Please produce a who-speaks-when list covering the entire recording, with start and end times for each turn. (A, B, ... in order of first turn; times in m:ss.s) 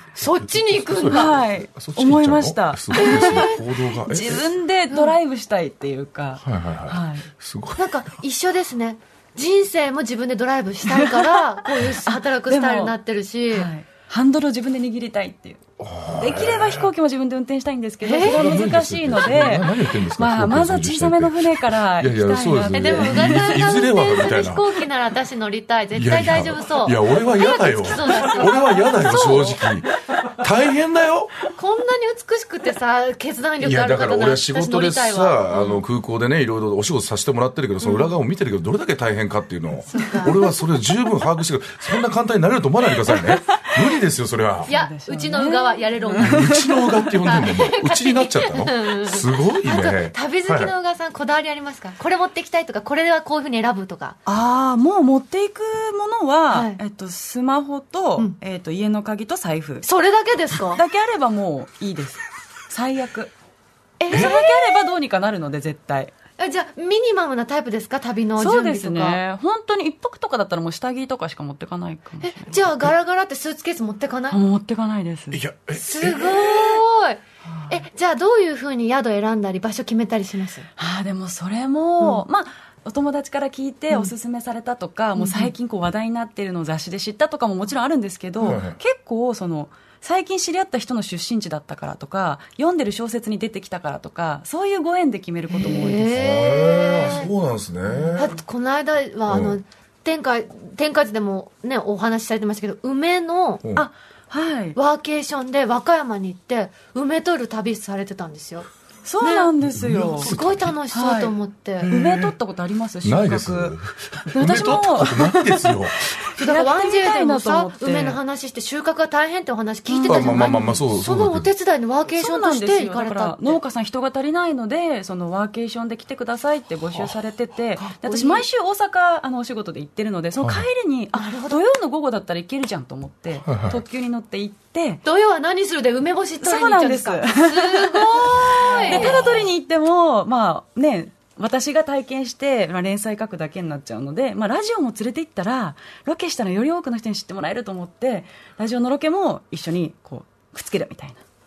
0:00.2-0:04.5 A
0:00.2-0:01.4 B
0:01.1-0:07.3 C
0:02.9-0:03.6 B
0:04.9-0:05.2 B
0:06.4-0:07.9 A
0:07.8-0:13.7 B
0:10.8-0:13.0 C
0:13.5-0:15.6 C
0:15.8-0:16.9 A
0:16.2-0:23.7 C
0:18.0-0:18.6 B
0:18.2-0:24.8 A
0:22.7-0:29.8 B
0:26.0-0:31.4 A
0:28.1-0:28.6 C
0:31.6-0:35.8 B
0:33.6-0:44.7 A
0:37.8-0:38.1 B
0:39.9-0:40.8 B
0:40.0-0:40.5 C
0:44.7-0:47.1 C
0:44.7-0:54.2 B
0:46.2-0:50.7 A
0:54.3-0:59.9 C
0:56.5-0:56.8 B
0:59.8-1:00.8 B
1:00.8-1:03.3 C
1:04.0-1:04.9 B
1:04.1-1:06.2 C
1:04.1-1:04.4 A
1:06.4-1:09.2 B
1:08.4-1:12.6 C
1:12.2-1:14.4 B
1:14.3-1:15.4 C
1:15.3-1:16.8 A
1:15.7-1:20.7 B
1:17.4-1:17.8 C
1:20.8-1:36.2 C
1:25.2-1:25.5 B
1:28.4-1:28.8 A
1:35.5-1:37.3 B
1:36.1-1:38.4 A
1:38.0-1:38.4 C
1:38.1-1:43.6 B
1:39.3-1:39.6 A
1:43.8-1:44.8 C
1:44.8-1:48.7 B
1:49.0-1:50.3 C
1:49.2-1:49.5 B
1:49.6-1:50.7 A
1:50.2-1:51.9 B
1:50.9-1:51.4 C
1:51.8-1:52.4 A
1:51.9-1:53.8 C
1:53.0-1:56.0 A
1:54.3-1:58.2 C
1:54.5-1:54.8 B
1:56.4-2:03.6 B
1:59.9-2:00.8 C
2:00.0-2:01.5 A
2:02.1-2:15.0 C
2:07.8-2:08.5 B
2:10.4-2:10.7 A
2:11.2-2:11.6 B
2:13.4-2:13.8 A
2:15.0-2:19.5 B
2:16.4-2:31.2 C
2:18.9-2:19.3 A